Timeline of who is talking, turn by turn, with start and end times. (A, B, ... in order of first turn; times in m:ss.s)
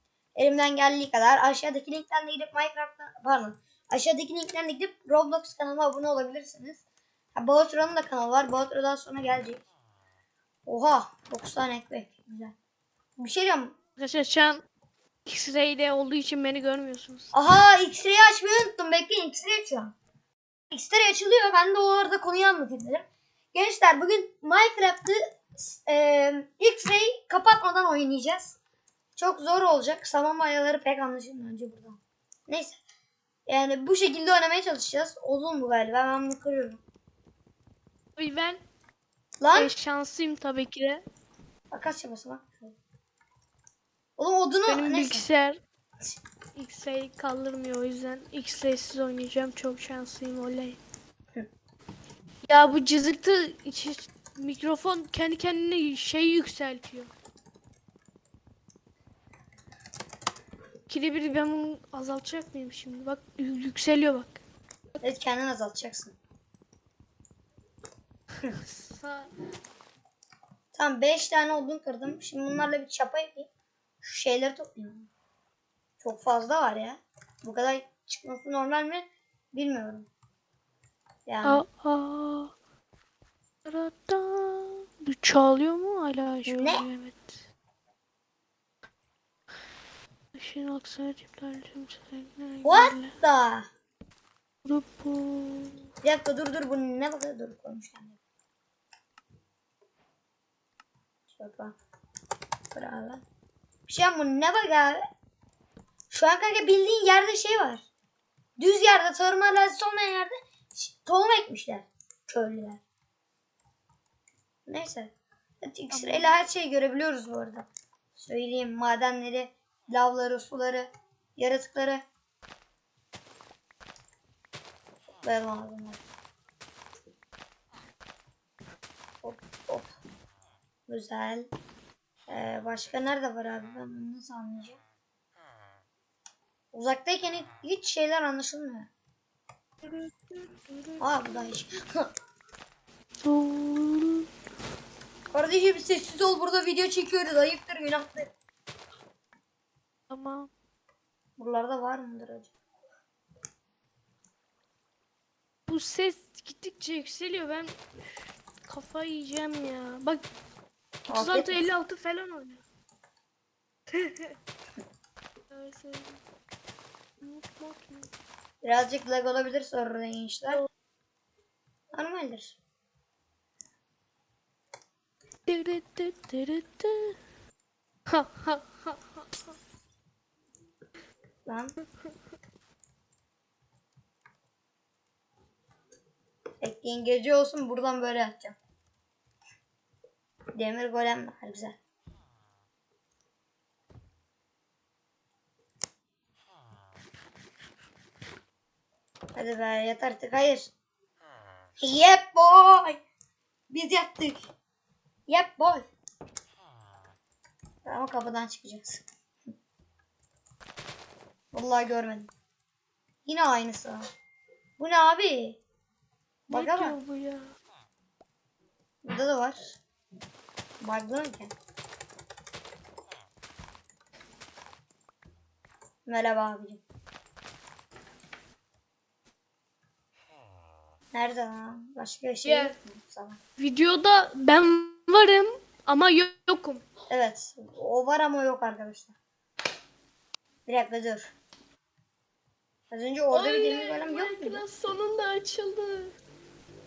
0:00.4-0:06.8 A
0:07.4-0:09.6 A
0:10.7-0:12.6 A
0:13.2-0:13.8 A
0:14.0-0:14.6 B
0:15.3-0:17.4 B
0:17.3-0:20.0 A
0:20.7-0:28.6 A
0:29.2-0:32.8 A
0:33.5-0:36.8 A
0:38.2-0:38.6 B
0:39.4-0:39.7 A
0:39.5-0:41.0 B
0:41.7-0:42.8 A
0:44.2-0:45.3 A
0:44.7-0:45.6 B
0:46.6-0:50.8 B
0:52.5-0:57.1 B
1:00.9-1:04.4 B
1:05.0-1:06.2 A
1:08.4-1:09.3 B
1:10.7-1:13.5 A
1:14.0-1:15.1 A
1:16.0-1:20.1 A
1:21.3-1:21.6 A
1:21.4-1:22.5 B
1:23.6-1:27.3 B
1:26.5-1:26.8 A
1:30.4-1:33.1 B
1:32.6-1:33.7 A
1:34.6-1:35.8 B
1:36.0-1:38.2 A
1:41.4-1:41.8 A
1:42.7-1:43.2 A
1:43.9-1:45.0 A
1:46.1-1:47.8 A
1:48.6-1:52.8 A
1:54.7-2:02.0 A
1:55.9-1:56.3 B
2:05.2-2:06.0 A
2:09.2-2:09.9 A
2:10.9-2:11.5 A
2:12.3-2:14.8 A
2:16.7-2:18.9 A
2:19.8-2:21.4 B
2:21.0-2:22.1 A
2:23.2-2:24.3 B
2:25.3-2:28.3 A
2:30.1-2:30.5 B
2:31.4-2:32.5 A
2:35.7-2:37.8 B
2:38.6-2:40.2 B
2:41.1-2:42.6 B
2:41.1-2:41.7 A
2:43.9-2:44.3 B
2:45.5-2:46.2 B
2:47.2-2:48.1 B
2:48.6-2:50.6 A
2:51.9-2:52.6 A
2:55.5-2:57.2 B
2:58.1-2:59.2 B
3:01.5-3:01.8 A
3:06.6-3:08.6 A
3:10.6-3:11.8 A
3:19.4-3:20.7 A
3:21.8-3:23.0 A
3:23.7-3:24.4 A
3:25.3-3:25.9 A
3:27.8-3:29.0 A
3:31.5-3:32.3 A
3:33.3-3:34.1 A
3:34.8-3:35.6 A
3:36.5-3:37.0 A
3:36.5-3:37.5 B
3:39.0-3:39.8 A
3:40.8-3:41.5 A
3:46.1-3:46.8 A
3:51.1-3:53.4 A
3:52.4-3:52.8 B
3:53.6-3:56.8 B
3:57.1-3:59.1 A
4:00.7-4:01.3 A
4:02.9-4:04.6 A
4:03.3-4:06.1 B